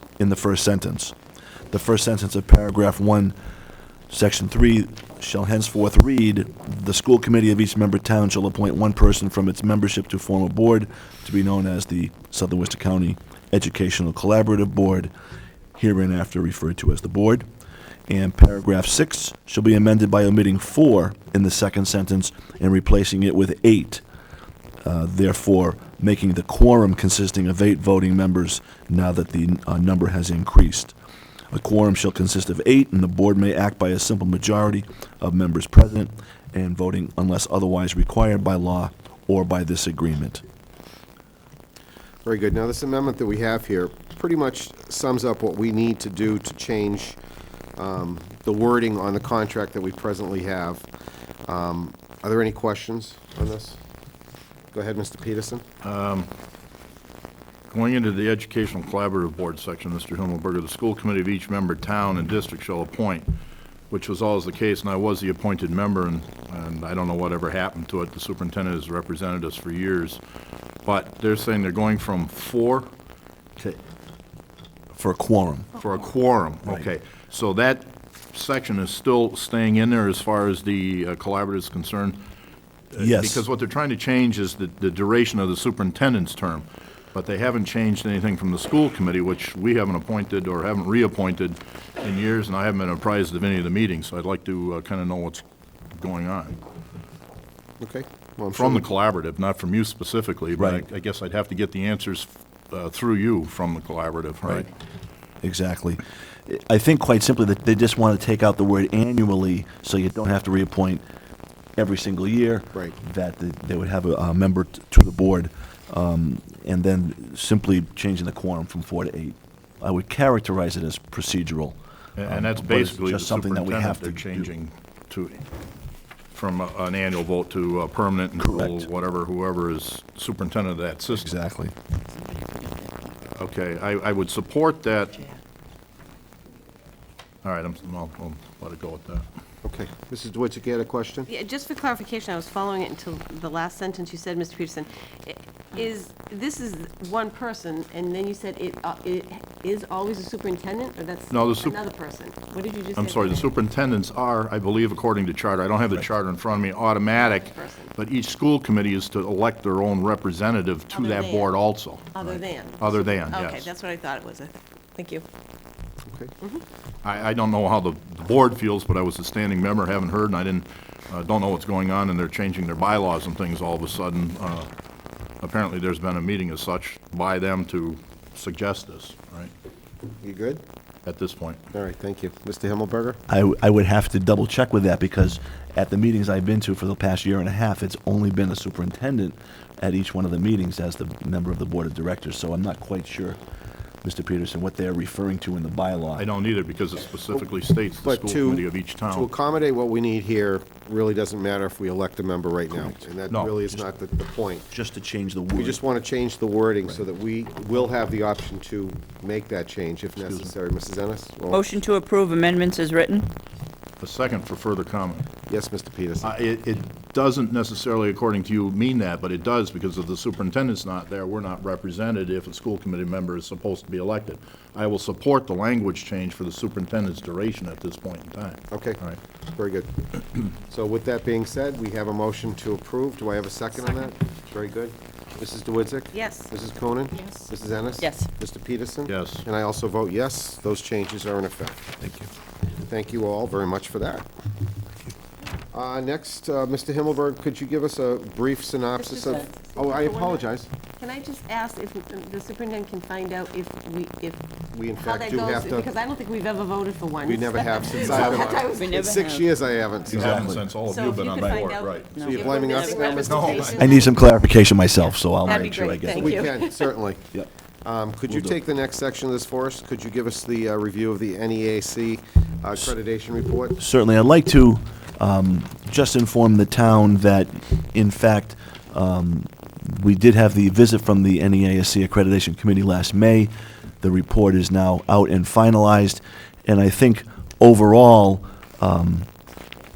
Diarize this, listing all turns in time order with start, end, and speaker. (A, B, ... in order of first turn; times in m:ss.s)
0:00.2-0:01.2 A
0:01.7-0:03.4 A
0:04.1-0:15.1 A
0:15.8-0:17.5 A
0:18.1-0:24.0 A
0:24.8-0:30.9 A
0:31.5-0:40.4 A
0:42.2-0:47.2 B
0:47.8-0:50.9 B
0:51.4-0:53.8 B
0:54.7-0:55.6 B
0:55.8-0:56.3 C
0:57.7-1:03.3 C
1:03.9-1:10.2 C
1:10.9-1:12.9 C
1:14.9-1:15.7 A
1:15.8-1:22.2 C
1:22.9-1:35.4 C
1:23.0-1:23.5 A
1:36.0-1:36.6 C
1:37.8-1:38.8 B
1:38.5-1:44.7 C
1:40.6-1:40.8 A
1:45.4-1:51.0 A
1:51.8-2:04.5 A
2:02.2-2:05.4 C
2:06.3-2:11.3 C
2:08.4-2:08.9 A
2:11.1-2:11.7 A
2:13.3-2:15.3 C
2:17.4-2:19.3 C
2:19.6-2:21.3 B
2:21.3-2:33.5 D
2:31.3-2:31.8 C
2:33.0-2:43.7 C
2:37.5-2:37.9 D
2:40.9-2:41.5 D
2:42.2-2:45.2 D
2:46.1-2:46.3 B
2:47.0-2:54.7 C
2:55.4-2:59.5 C
3:00.2-3:00.6 B
3:01.1-3:01.6 C
3:01.7-3:03.2 B
3:03.3-3:13.4 A
3:14.0-3:16.3 A
3:16.2-3:19.3 C
3:18.0-3:24.7 B
3:22.7-3:23.0 A
3:24.7-3:25.8 A
3:25.5-3:31.6 B
3:30.2-3:30.5 C
3:31.5-3:33.4 E
3:34.0-3:35.3 C
3:35.5-3:36.4 B
3:36.2-3:49.2 C
3:48.7-3:49.0 B
3:49.5-4:02.0 B
3:56.1-3:56.5 D
3:58.0-3:58.3 E
3:59.1-3:59.4 C
4:02.0-4:02.3 A
4:02.8-4:04.3 B
4:05.7-4:10.7 B
4:09.0-4:10.4 D
4:11.0-4:14.4 D
4:14.7-4:15.9 B
4:15.0-4:19.1 D
4:17.2-4:20.5 B
4:17.9-4:18.4 C
4:18.1-4:19.5 E
4:20.1-4:22.2 C
4:20.1-4:20.7 A
4:20.9-4:24.2 D
4:21.4-4:21.6 A
4:22.1-4:23.1 E
4:22.2-4:23.8 B
4:23.2-4:23.9 C
4:23.8-4:26.6 A
4:25.4-4:26.8 D
4:26.1-4:27.2 B
4:27.8-4:33.8 B
4:28.3-4:28.6 A
4:33.8-4:49.3 A